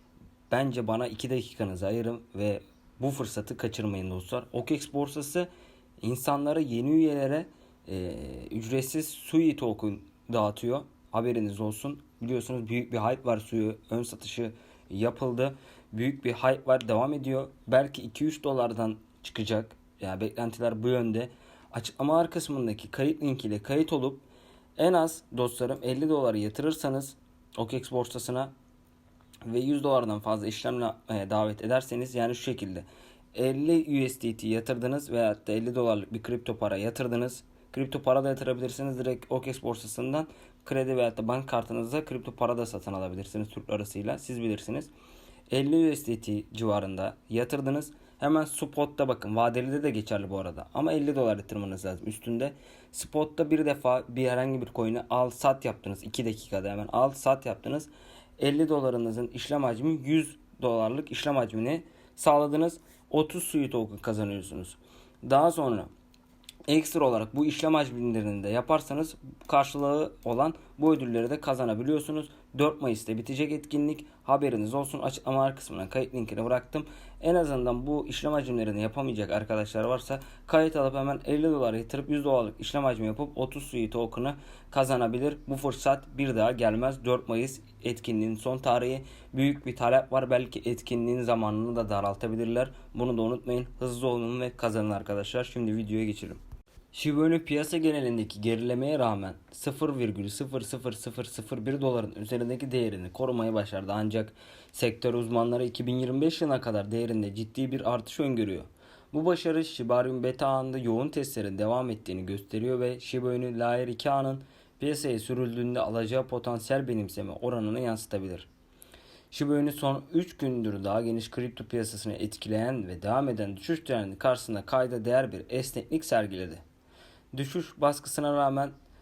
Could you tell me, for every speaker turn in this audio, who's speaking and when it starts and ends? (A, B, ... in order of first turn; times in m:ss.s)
0:00.5-0:05.5 A
0:06.0-0:24.2 A
0:24.8-0:28.5 A
0:29.5-0:44.9 A
0:45.5-1:05.9 A
1:06.7-1:36.4 A
1:36.9-1:58.5 A
1:59.3-2:06.6 A
2:07.3-2:08.7 A